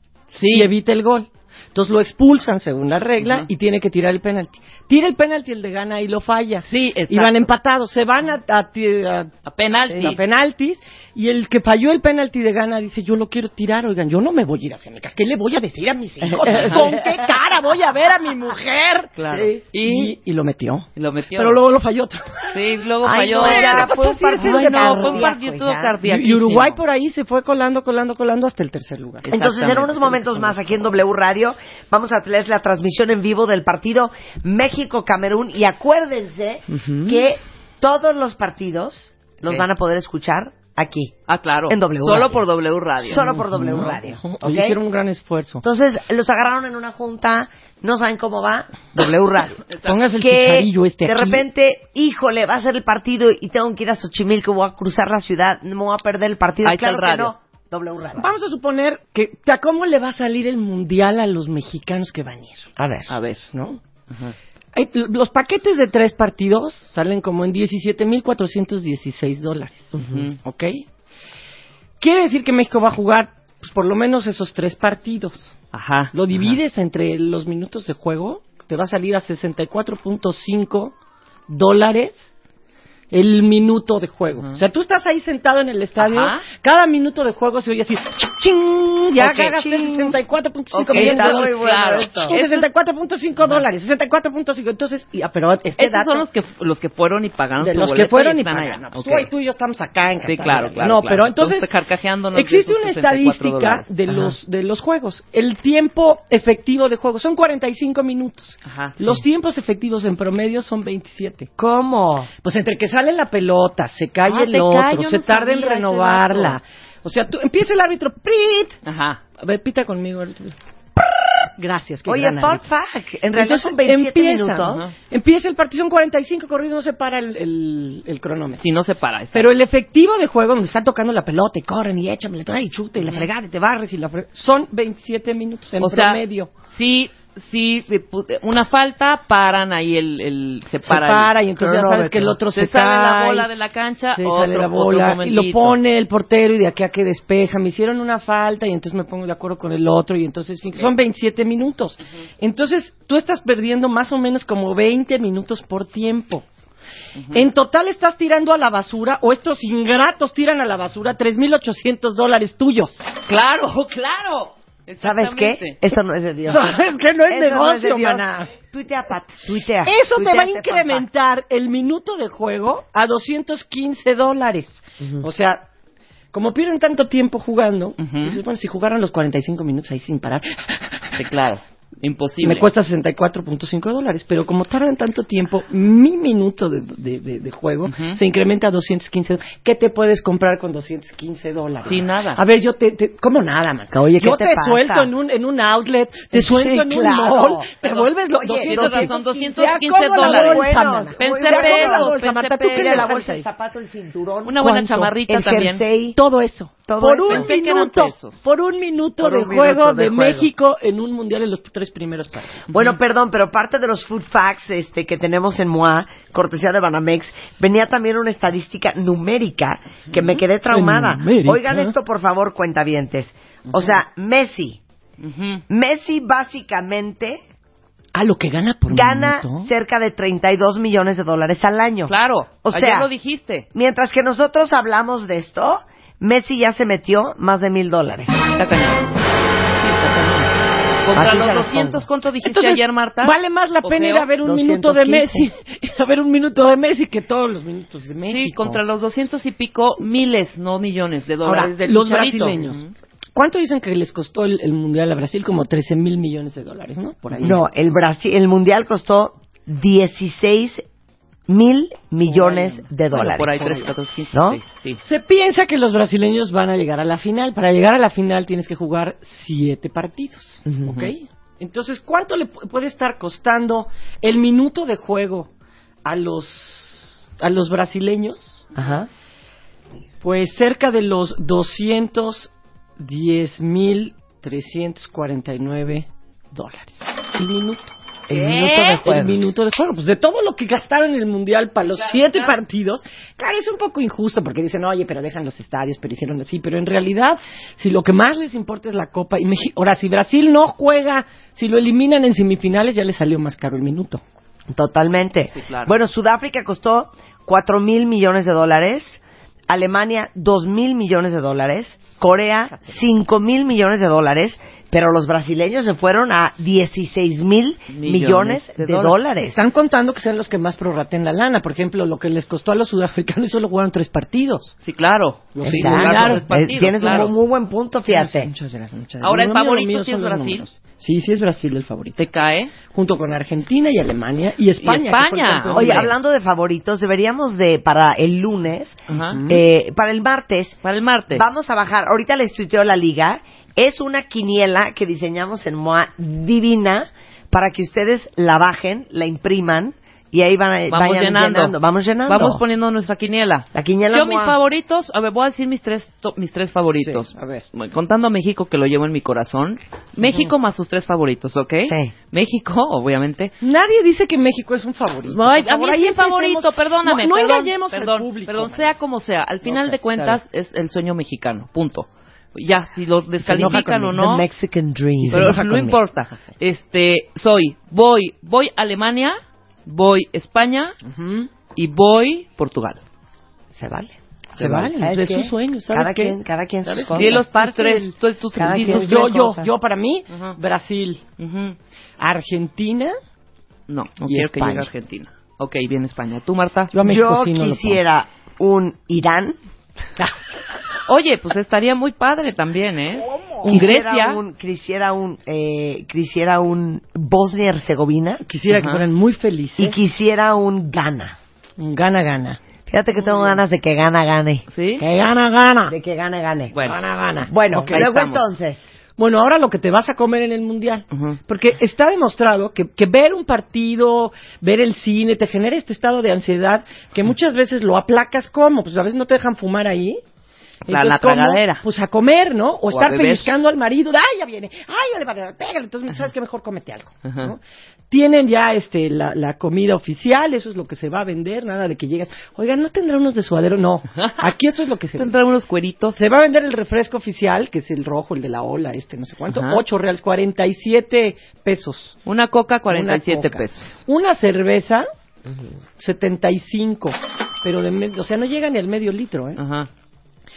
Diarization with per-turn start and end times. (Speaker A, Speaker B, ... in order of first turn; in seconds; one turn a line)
Speaker A: 0.3-0.7
Speaker B: 0.5-9.3
Speaker A: 3.2-3.5
Speaker A: 6.6-7.5
Speaker A: 9.4-10.2
Speaker B: 9.9-19.1
Speaker C: 16.2-17.3
Speaker A: 16.4-16.9
Speaker A: 19.1-20.1
Speaker C: 19.3-19.6
Speaker B: 19.8-22.5
Speaker A: 20.9-21.6
Speaker A: 22.5-26.8
Speaker C: 23.0-26.0
Speaker B: 23.4-25.3
Speaker B: 26.0-29.3
Speaker A: 29.2-30.6
Speaker C: 29.3-41.1
Speaker B: 36.7-37.2
Speaker A: 41.3-43.3
Speaker C: 41.7-42.4
Speaker C: 43.0-44.8
Speaker B: 43.1-45.6
Speaker C: 45.6-49.6
Speaker A: 49.7-50.0
Speaker B: 49.8-51.4
Speaker C: 50.2-58.3
Speaker A: 56.6-57.3
Speaker B: 58.1-62.7
Speaker C: 62.8-63.1
Speaker A: 63.1-63.4
Speaker B: 63.4-63.8
Speaker B: 64.7-70.8
Speaker C: 70.0-70.2
Speaker A: 70.0-70.3
Speaker B: 72.0-75.5
Speaker A: 75.7-76.6
Speaker B: 76.1-80.9
Speaker B: 81.5-82.3
Speaker B: 83.1-96.2
Speaker A: 86.0-86.4
Speaker C: 89.2-90.2
Speaker C: 90.8-92.3
Speaker A: 90.8-92.7
Speaker A: 95.8-99.3
Speaker B: 97.6-101.7
Speaker A: 100.2-103.9
Speaker B: 102.3-111.5
Speaker A: 108.6-109.2
Speaker C: 111.6-112.3
Speaker B: 112.4-118.8
Speaker A: 114.2-116.6
Speaker A: 118.8-119.2
Speaker B: 119.4-120.5
Speaker B: 121.6-122.6
Speaker C: 122.1-124.8
Speaker B: 123.3-128.6
Speaker A: 124.6-124.9
Speaker A: 128.6-129.5
Speaker B: 129.3-136.5
Speaker A: 133.0-133.3
Speaker A: 135.8-141.3
Speaker B: 140.8-143.5
Speaker C: 141.6-142.4
Speaker A: 142.5-145.8
Speaker B: 144.1-156.4
Speaker B: 157.3-163.1
Speaker A: 163.2-165.8
Speaker C: 165.0-166.7
Speaker B: 166.5-168.5
Speaker C: 167.3-171.0
Speaker B: 169.8-175.7
Speaker C: 175.0-175.2
Speaker B: 176.3-181.2
Speaker A: 178.0-178.4
Speaker A: 181.1-182.7
Speaker B: 182.4-203.4
Speaker A: 187.9-188.2
Speaker A: 191.8-192.4
Speaker C: 193.9-195.1
Speaker C: 196.3-197.7
Speaker A: 197.8-198.1
Speaker C: 198.4-199.2
Speaker A: 198.6-203.1
Speaker C: 200.2-202.2
Speaker C: 202.7-206.2
Speaker A: 204.4-205.8
Speaker B: 204.6-205.1
Speaker B: 206.1-212.7
Speaker C: 206.9-207.5
Speaker A: 207.3-208.4
Speaker C: 209.2-210.5
Speaker C: 212.7-224.8
Speaker B: 220.7-221.9
Speaker A: 225.2-225.6
Speaker C: 225.7-227.4
Speaker B: 228.1-229.7
Speaker C: 228.9-232.1
Speaker A: 232.1-233.7
Speaker C: 232.6-233.1
Speaker C: 233.7-238.4
Speaker A: 238.5-239.1
Speaker A: 239.8-240.5
Speaker A: 241.0-244.3
Speaker C: 241.1-242.0
Speaker B: 242.4-248.8
Speaker C: 244.4-245.5
Speaker A: 248.2-252.9
Speaker B: 251.4-252.8
Speaker B: 253.3-257.6
Speaker C: 257.4-260.8
Speaker C: 261.5-264.6
Speaker B: 262.2-262.8
Speaker A: 263.1-265.0
Speaker B: 265.0-275.5
Speaker C: 270.6-270.9
Speaker B: 276.0-278.7
Speaker C: 278.7-279.1
Speaker B: 280.2-287.9
Speaker C: 288.3-289.4
Speaker A: 288.3-289.0
Speaker B: 289.0-304.2
Speaker A: 291.9-292.5
Speaker C: 304.7-319.6
Speaker A: 305.5-305.9
Speaker A: 317.9-319.2
Speaker B: 319.4-324.7
Speaker A: 324.8-327.3
Speaker B: 325.5-326.5
Speaker C: 325.6-328.5
Speaker B: 327.0-327.3
Speaker B: 328.1-332.2
Speaker A: 329.2-330.6
Speaker A: 332.2-332.7
Speaker B: 332.9-336.1
Speaker A: 334.8-336.1
Speaker C: 335.7-340.8
Speaker A: 339.1-339.4
Speaker B: 339.2-339.6
Speaker A: 340.8-341.4
Speaker C: 341.3-352.6
Speaker A: 350.9-351.7
Speaker A: 352.3-363.5
Speaker C: 353.7-354.6
Speaker B: 356.8-357.6
Speaker C: 361.8-362.1
Speaker B: 363.6-368.9
Speaker A: 365.2-374.4
Speaker B: 369.6-370.4
Speaker C: 373.4-376.0
Speaker B: 373.4-374.0
Speaker B: 375.2-375.8
Speaker A: 375.3-380.9
Speaker B: 381.0-381.5
Speaker A: 381.7-383.0
Speaker C: 383.7-387.4
Speaker B: 384.6-388.1
Speaker A: 387.1-389.2
Speaker C: 388.6-389.7
Speaker B: 388.7-391.2
Speaker A: 390.3-390.6
Speaker A: 391.4-391.8
Speaker B: 392.2-393.1
Speaker A: 393.9-396.9
Speaker C: 394.3-394.9
Speaker B: 396.9-398.0
Speaker C: 397.0-399.6
Speaker A: 401.1-404.4
Speaker C: 403.6-408.4
Speaker B: 408.4-410.0
Speaker A: 408.7-409.0
Speaker C: 409.8-411.4
Speaker B: 411.8-412.6
Speaker C: 412.9-414.6
Speaker A: 414.7-415.0
Speaker B: 415.0-415.9
Speaker C: 415.9-416.7
Speaker A: 416.7-417.0
Speaker B: 416.8-418.0
Speaker C: 417.5-418.8
Speaker A: 417.9-418.4
Speaker B: 419.2-430.2
Speaker A: 421.1-421.4
Speaker B: 430.9-445.3
Speaker A: 430.9-431.8
Speaker A: 432.9-433.5
Speaker A: 437.2-437.5
Speaker A: 445.2-446.2
Speaker B: 446.1-452.2
Speaker A: 449.5-449.8
Speaker A: 452.2-454.0
Speaker B: 452.9-455.1
Speaker B: 456.0-459.6
Speaker A: 459.6-459.9